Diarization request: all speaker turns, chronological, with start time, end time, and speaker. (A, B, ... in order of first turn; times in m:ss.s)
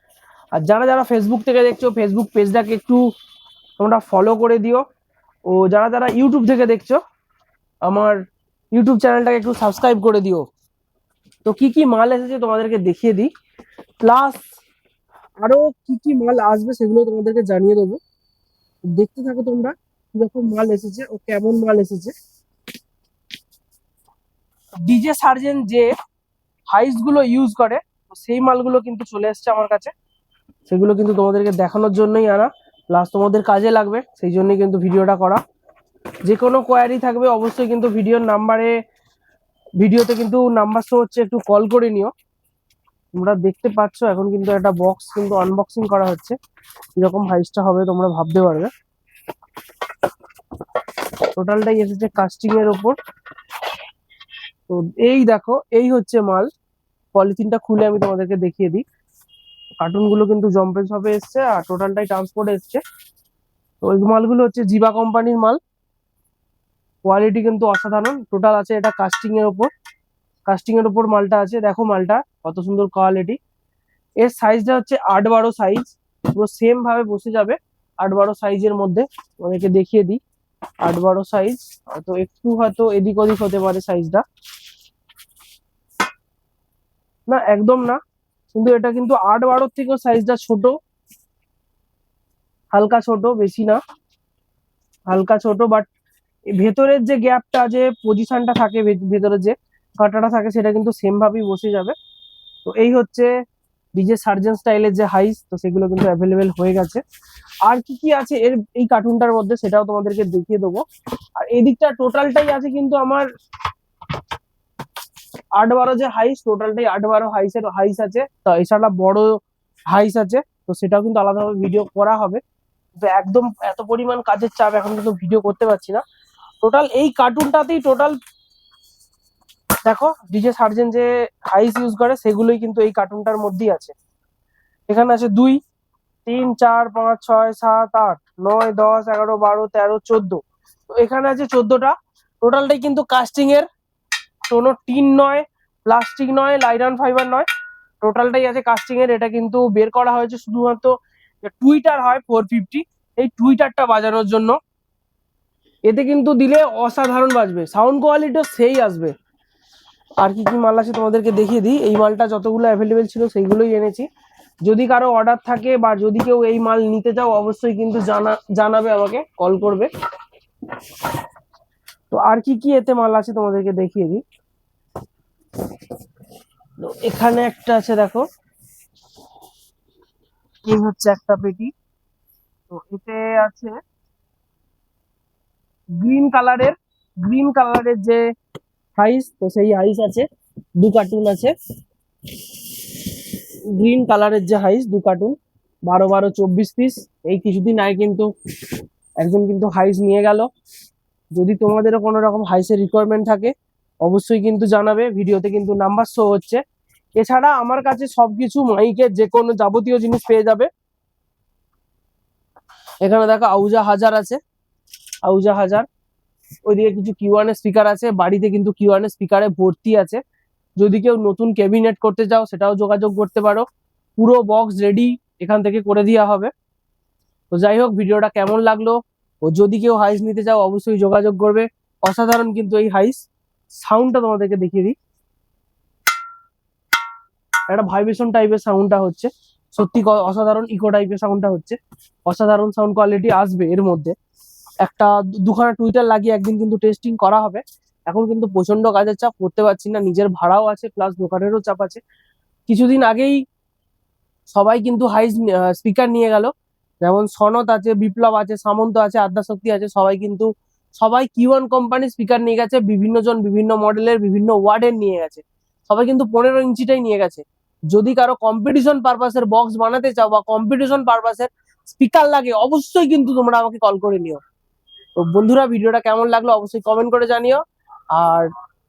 0:00.6-0:03.0 A
0:03.8-0:04.8 A
0:05.5-0:07.0 A
0:07.8-0:08.2 A
0:08.7-0:10.4 A
0:11.4-0:13.3 A
0:14.0-0:14.4 A
0:15.4-0:18.0 A
0:18.9-0:22.1 A
0:24.8-0:25.9 A
0:26.7-0:29.9 A
0:30.7-0:35.4 A
0:36.2-0:38.7 A
0:39.8-0:42.1 A
0:43.1-0:46.3 A
0:47.0-0:48.7 A
0:51.4-0:53.0 A
0:54.7-0:56.5 A
0:57.1-0:58.8 A
0:59.8-1:02.8 A
1:03.8-1:05.6 A
1:07.0-1:09.7 A
1:10.5-1:13.4 A
1:14.2-1:20.2 A
1:20.8-1:24.2 A
1:27.3-1:28.0 A
1:28.5-1:30.7 A
1:32.7-1:33.8 A
1:35.1-1:35.8 A
1:36.6-1:41.9 A
1:42.6-1:43.3 A
1:44.0-1:47.0 A
1:47.6-1:50.8 A
1:51.4-1:53.2 A
1:55.6-1:59.3 A
1:59.9-2:02.4 A
2:03.0-2:06.0 A
2:06.6-2:08.2 A
2:09.8-2:13.9 A
2:14.9-2:15.6 A
2:16.2-2:20.4 A
2:21.0-2:23.6 A
2:24.5-2:27.4 A
2:28.0-2:34.6 A
2:35.9-2:39.1 A
2:40.2-2:44.1 A
2:44.6-2:49.9 A
2:52.1-2:54.2 A
2:56.8-2:58.2 A
3:00.6-3:01.7 A
3:02.7-3:03.8 A
3:06.0-3:08.2 A
3:09.0-3:10.2 A
3:10.8-3:11.5 A
3:13.7-3:15.3 A
3:15.9-3:18.3 A
3:19.2-3:20.5 A
3:21.3-3:23.5 A
3:24.0-3:26.6 A
3:27.2-3:30.7 A
3:33.0-3:34.4 A
3:35.2-3:35.8 A
3:36.6-3:40.2 A
3:40.8-3:43.6 A
3:44.2-3:46.5 A
3:47.5-3:53.2 A
3:53.8-3:54.9 A
3:57.7-4:04.1 A
4:04.8-4:12.0 A
4:12.7-4:13.4 A
4:14.5-4:16.5 A
4:17.0-4:34.4 A
4:35.2-4:37.6 A
4:38.1-4:38.5 A